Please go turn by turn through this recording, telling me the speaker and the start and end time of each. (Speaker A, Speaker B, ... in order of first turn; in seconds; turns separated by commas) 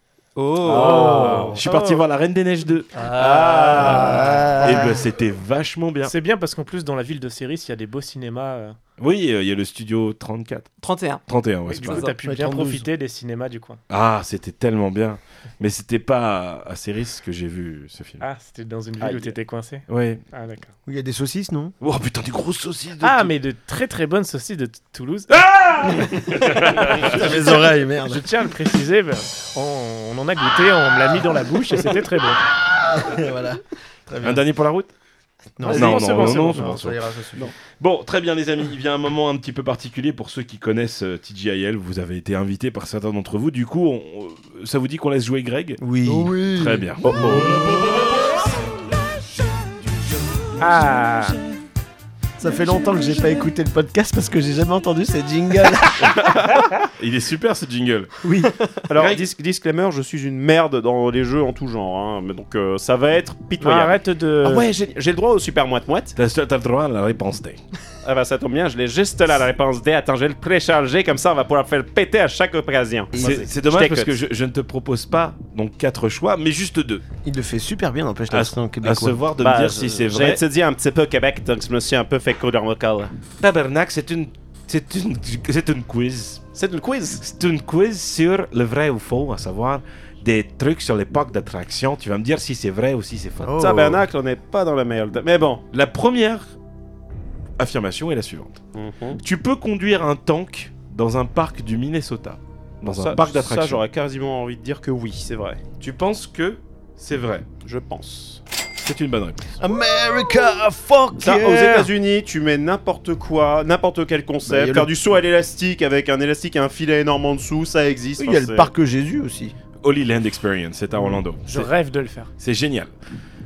Speaker A: 0.3-1.5, Speaker B: 0.6-1.6, Speaker C: 0.7-2.0, Speaker D: 1.5-2.9, Speaker C: 2.9-4.5, Speaker B: 3.1-5.0, Speaker A: 3.6-4.0, Speaker D: 3.8-6.1, Speaker C: 6.0-8.8, Speaker D: 9.0-10.7, Speaker A: 10.8-11.2, Speaker D: 11.3-12.1, Speaker C: 11.7-13.8, Speaker A: 11.8-12.1, Speaker B: 12.2-12.8, Speaker D: 13.9-18.2, Speaker C: 18.2-20.7, Speaker E: 19.0-19.3, Speaker D: 19.9-20.2, Speaker B: 20.9-21.7, Speaker D: 21.8-23.3, Speaker C: 23.0-32.4, Speaker D: 25.3-27.2, Speaker B: 27.0-28.2, Speaker B: 32.8-34.4, Speaker D: 34.2-34.9, Speaker B: 35.6-37.5, Speaker C: 35.6-36.8, Speaker D: 35.7-37.0, Speaker D: 37.8-47.7, Speaker B: 45.8-48.0, Speaker C: 50.6-51.4, Speaker B: 52.4-56.2, Speaker E: 56.0-56.7, Speaker D: 57.0-58.2, Speaker B: 58.2-58.5, Speaker E: 58.9-66.1, Speaker D: 58.9-59.2, Speaker C: 63.6-64.7, Speaker D: 66.2-67.6, Speaker E: 68.0-74.2, Speaker B: 73.1-73.5, Speaker D: 73.2-77.0, Speaker B: 77.2-79.2, Speaker D: 78.3-80.4, Speaker E: 79.4-83.1, Speaker D: 83.4-86.4, Speaker E: 86.5-87.2, Speaker D: 87.2-93.5, Speaker B: 93.4-94.0, Speaker E: 93.6-95.6, Speaker D: 95.7-96.5, Speaker D: 97.6-98.6, Speaker E: 98.7-99.2, Speaker D: 99.2-103.8, Speaker E: 102.8-105.6, Speaker D: 105.8-107.5, Speaker E: 107.6-108.4, Speaker D: 108.8-109.6, Speaker B: 109.6-111.9, Speaker E: 111.2-118.7, Speaker B: 114.5-114.9, Speaker B: 118.2-119.5, Speaker D: 119.8-121.7, Speaker C: 121.5-122.3, Speaker D: 122.4-122.9